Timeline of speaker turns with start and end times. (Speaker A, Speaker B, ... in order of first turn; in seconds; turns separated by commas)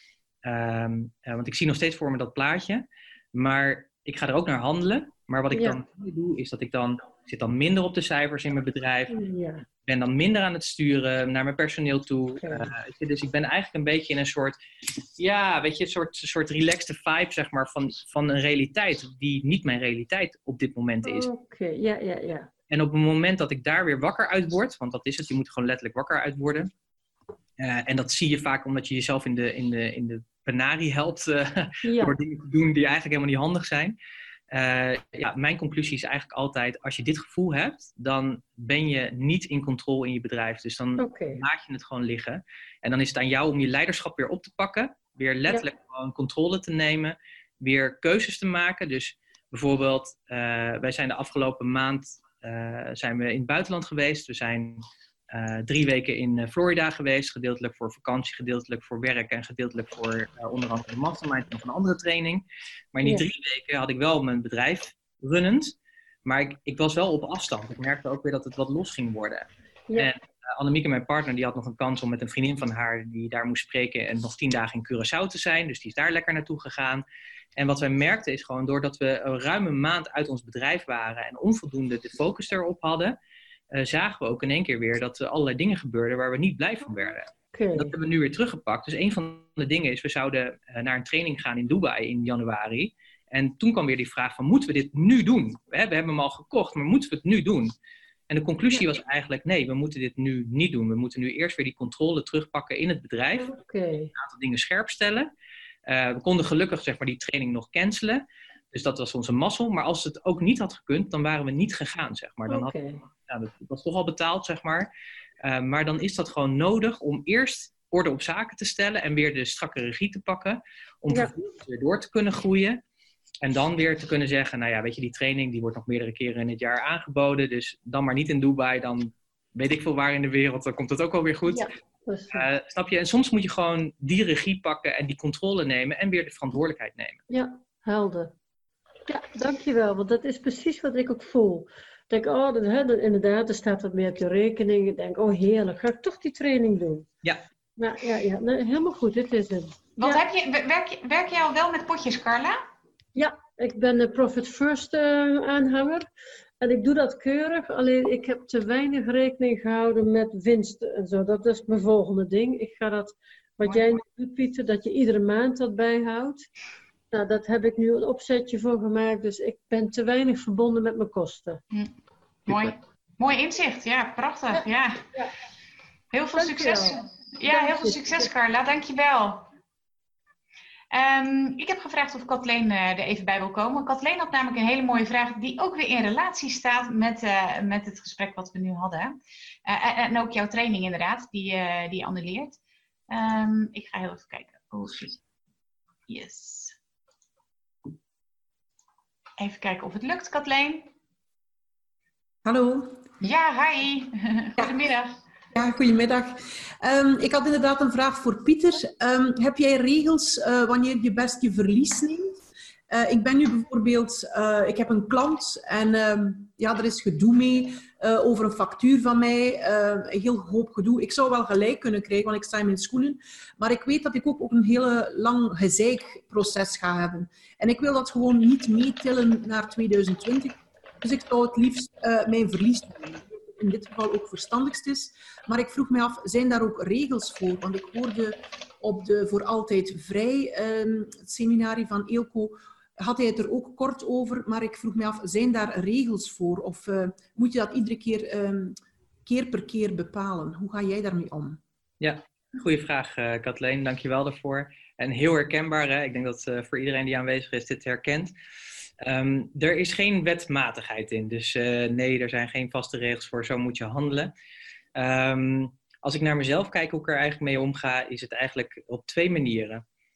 Speaker A: 0.4-9.2, Speaker B: 5.5-5.8, Speaker B: 9.1-9.6, Speaker A: 9.8-14.6, Speaker B: 12.4-12.7, Speaker A: 15.2-21.3, Speaker B: 21.0-22.5, Speaker A: 22.7-26.7, Speaker A: 27.6-34.0, Speaker B: 31.8-32.1, Speaker A: 34.5-77.0, Speaker B: 41.0-41.4, Speaker A: 77.6-83.2, Speaker A: 83.7-97.7, Speaker B: 87.5-87.9, Speaker A: 98.3-103.5, Speaker B: 103.4-104.1, Speaker A: 104.1-105.3, Speaker A: 105.8-114.9, Speaker B: 112.5-113.0, Speaker A: 115.4-122.8, Speaker A: 123.4-131.7, Speaker B: 131.5-132.4, Speaker A: 132.3-137.2, Speaker B: 137.3-138.3, Speaker B: 139.1-147.1, Speaker B: 147.8-150.2, Speaker C: 150.0-152.6, Speaker B: 153.1-156.1, Speaker B: 156.6-166.5, Speaker B: 167.1-171.6, Speaker C: 172.5-175.0, Speaker C: 176.1-179.5, Speaker B: 176.3-178.3, Speaker C: 180.9-189.1, Speaker C: 189.6-192.6, Speaker C: 193.1-195.2, Speaker C: 196.1-196.8, Speaker C: 199.4-200.9, Speaker D: 202.4-203.1, Speaker C: 203.2-205.2, Speaker D: 205.5-212.4, Speaker D: 212.9-251.6, Speaker A: 252.0-258.3, Speaker A: 259.0-264.3, Speaker A: 264.9-269.8